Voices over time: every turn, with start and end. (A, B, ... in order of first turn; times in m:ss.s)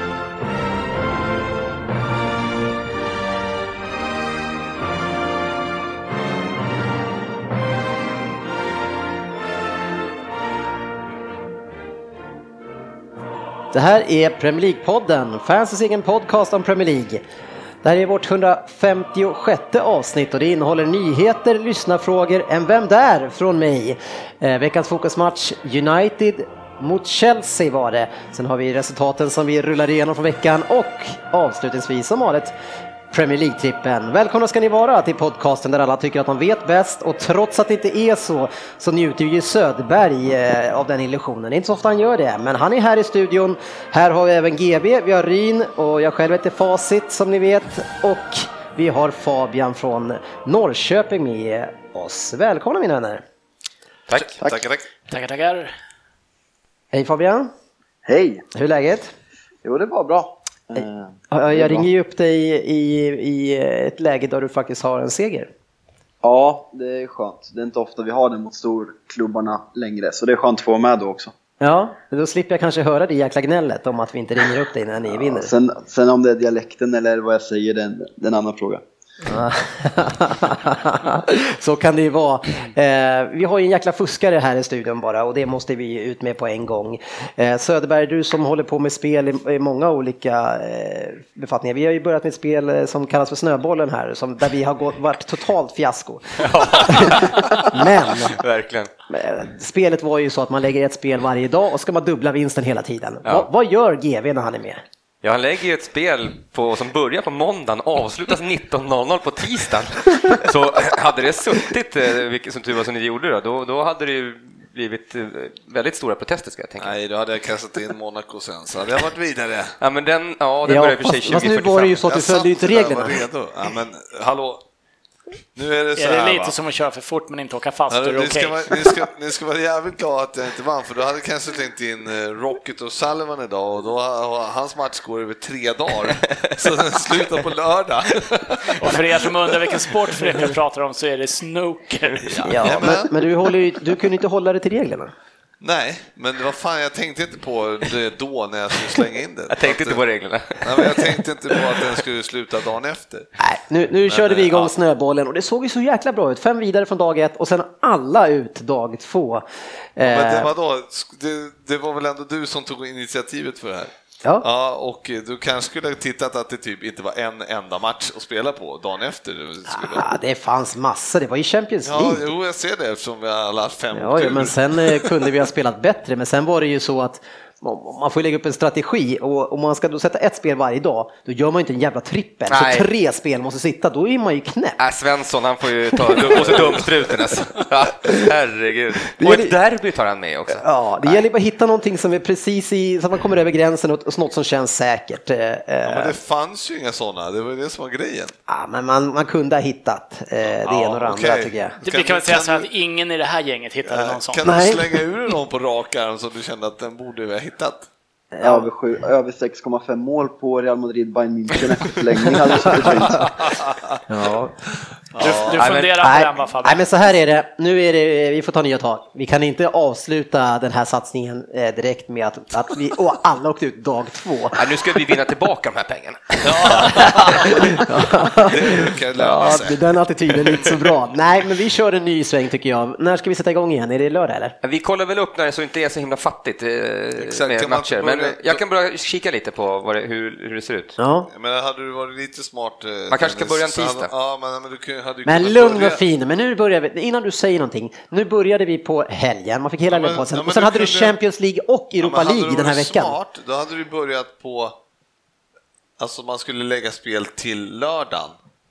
0:13.7-0:17.2 A
0:17.8-0:32.5 A
0:33.1-0:53.2 A
0:54.2-0:54.9 B
0:55.1-0:55.7 C
0:56.9-0:57.5 A
0:58.0-0:58.4 D
0:58.5-0:59.1 A
0:59.6-1:01.8 D
1:00.8-1:05.5 A
1:06.2-1:11.3 D
1:11.6-1:15.5 A
1:15.1-1:18.8 D
1:19.2-1:38.4 A
1:36.4-1:38.9 E
1:39.1-1:44.8 A
1:45.2-1:56.9 E
1:56.8-1:59.8 B
1:59.8-2:02.0 E
2:00.7-2:03.2 A
2:02.0-2:04.6 B
2:05.5-2:06.5 B
2:06.0-2:08.9 C
2:07.9-2:19.9 B
2:18.8-2:22.6 C
2:22.2-2:23.3 B
2:22.5-2:25.1 A
2:25.6-2:30.0 B
2:29.5-2:31.6 E
2:30.6-2:33.3 B
2:33.4-2:39.4 A
2:34.1-2:34.7 B
2:40.0-2:40.5 A
2:40.0-2:50.2 B
2:49.7-2:52.2 A
2:51.8-2:55.3 B
2:53.9-3:04.8 A
3:02.5-3:02.9 E
3:04.8-3:11.2 E
3:06.2-3:06.8 B
3:06.3-3:06.6 A
3:09.2-3:09.5 A
3:10.6-3:16.1 A
3:15.8-3:18.3 B
3:18.5-3:21.8 A
3:20.6-3:22.7 B
3:21.8-3:24.4 C
3:23.8-3:27.9 B
3:24.4-3:24.9 A
3:28.3-3:28.7 A
3:28.4-3:33.4 D
3:32.8-3:34.0 B
3:34.1-3:34.6 A
3:35.1-3:35.6 B
3:35.2-3:36.8 C
3:35.2-3:35.9 E
3:36.0-3:44.6 A
3:44.5-3:47.8 E
3:46.4-3:47.9 B
3:46.9-3:54.6 A
3:48.4-3:50.8 B
3:54.6-4:01.0 E
3:57.2-3:58.6 B
4:01.0-4:01.3 A
4:01.3-4:06.0 B
4:03.1-4:04.1 E
4:05.2-4:13.2 A
4:09.9-4:11.1 B
4:12.0-4:14.8 B
4:16.0-4:18.4 B